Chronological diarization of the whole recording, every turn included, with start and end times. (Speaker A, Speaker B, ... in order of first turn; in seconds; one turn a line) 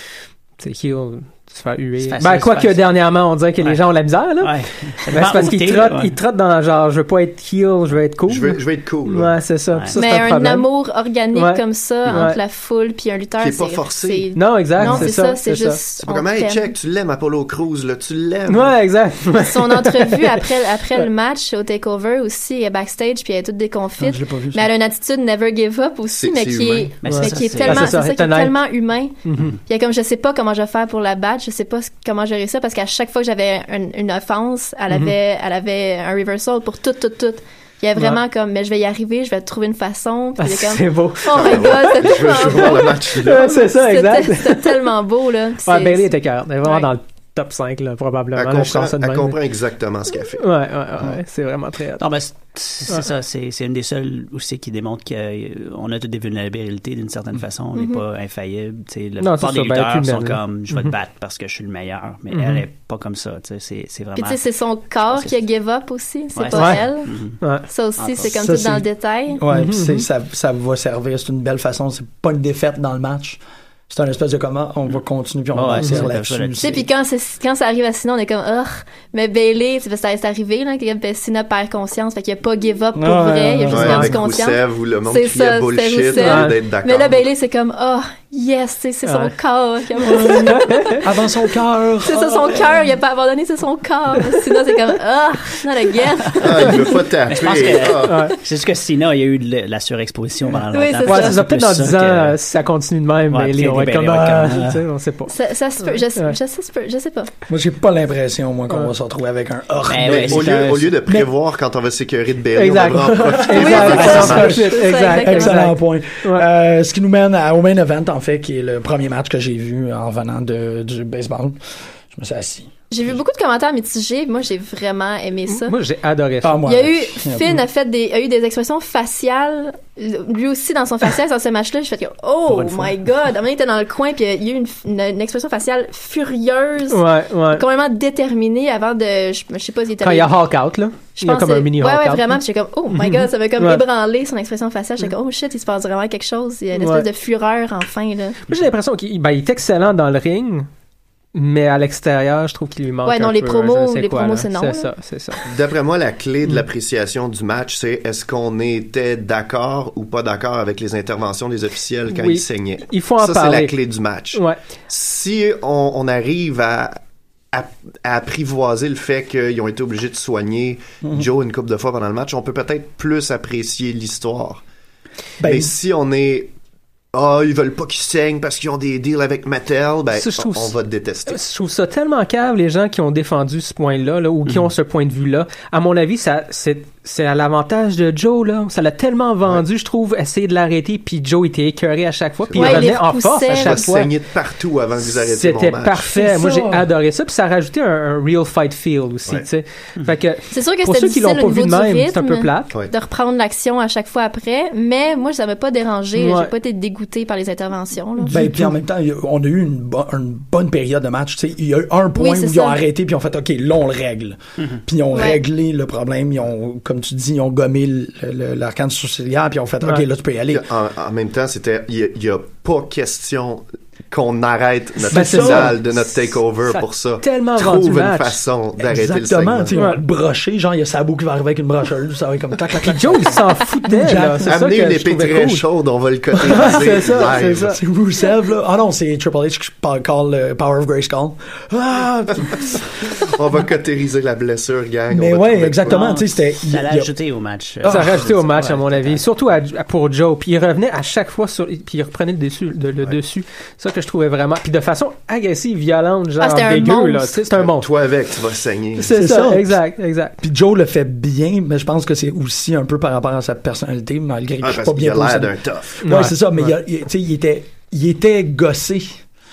Speaker A: 0.6-10.7
Speaker B: 2.0-2.8
Speaker B: 4.4-6.1
Speaker C: 8.3-9.4
Speaker B: 9.7-10.0
Speaker D: 9.9-16.7
Speaker A: 11.3-12.4
Speaker B: 12.1-12.3
Speaker C: 13.4-14.3
Speaker A: 14.3-15.8
Speaker E: 14.8-15.1
Speaker C: 16.0-18.8
Speaker A: 18.5-20.4
Speaker D: 19.3-46.9
Speaker E: 24.0-24.7
Speaker C: 26.1-26.9
Speaker B: 27.0-27.9
Speaker A: 27.1-28.6
Speaker A: 29.2-29.5
Speaker A: 34.9-35.1
Speaker A: 38.0-38.2
Speaker A: 40.4-44.8
Speaker C: 41.3-43.5
Speaker A: 45.6-49.4
Speaker C: 48.3-50.5
Speaker A: 50.4-52.0
Speaker B: 52.0-65.4
Speaker D: 57.7-58.0
Speaker A: 59.2-60.9
Speaker A: 62.3-62.6
Speaker D: 64.1-69.4
Speaker B: 66.3-67.4
Speaker A: 66.5-66.8
Speaker B: 68.0-68.3
Speaker E: 68.2-76.8
Speaker A: 69.5-70.0
Speaker B: 75.5-76.9
Speaker D: 76.6-91.0
Speaker E: 83.0-84.1
Speaker C: 83.7-87.2
Speaker A: 83.8-84.1
Speaker A: 86.2-86.5
Speaker A: 89.0-89.3
Speaker E: 90.0-92.9
Speaker A: 90.4-91.0
Speaker D: 92.0-96.9
Speaker C: 96.4-98.3
Speaker B: 97.3-102.4
Speaker A: 98.0-98.4
Speaker D: 100.7-101.4
Speaker A: 101.0-106.4
Speaker B: 103.3-104.8
Speaker D: 105.3-107.3
Speaker E: 107.5-111.3
Speaker B: 109.9-111.0
Speaker C: 110.2-114.7
Speaker A: 112.5-116.5
Speaker E: 113.3-113.8
Speaker D: 113.5-115.7
Speaker B: 113.8-114.5
Speaker E: 114.3-122.7
Speaker D: 122.9-125.7
Speaker A: 125.5-126.7
Speaker E: 126.4-127.6
Speaker D: 126.6-140.4
Speaker A: 136.9-137.6
Speaker A: 140.0-142.4
Speaker D: 141.2-148.4
Speaker A: 142.9-143.8
Speaker A: 146.7-147.1
Speaker A: 148.5-150.7
Speaker A: 151.3-155.4
Speaker D: 153.1-154.9
Speaker C: 155.4-167.0
Speaker A: 162.1-163.8
Speaker A: 164.3-164.6
Speaker C: 167.5-174.6
Speaker E: 175.4-175.7
Speaker C: 175.4-176.5
Speaker C: 177.1-181.4
Speaker A: 180.1-180.7
Speaker A: 181.3-194.1
Speaker C: 192.5-196.1
Speaker D: 192.5-193.9
Speaker A: 195.1-202.7
Speaker E: 196.1-196.9
Speaker D: 200.5-208.4
Speaker A: 206.1-206.5
Speaker A: 208.2-208.7
Speaker E: 208.3-220.7
Speaker D: 212.1-212.8
Speaker D: 215.1-215.4
Speaker C: 220.5-229.8
Speaker E: 225.0-225.8
Speaker A: 225.1-225.9
Speaker A: 226.7-228.4
Speaker E: 228.8-234.6
Speaker A: 229.7-230.0
Speaker A: 232.8-235.6
Speaker C: 234.4-237.7
Speaker A: 236.4-237.8
Speaker E: 236.5-243.2
Speaker C: 243.1-246.1
Speaker E: 245.1-247.1
Speaker B: 245.9-249.2
Speaker E: 247.8-248.3
Speaker A: 247.9-257.9
Speaker D: 256.4-257.4
Speaker C: 257.5-259.2
Speaker A: 259.0-260.4
Speaker E: 259.1-259.9
Speaker E: 260.4-269.2
Speaker C: 264.6-266.0
Speaker A: 266.0-266.7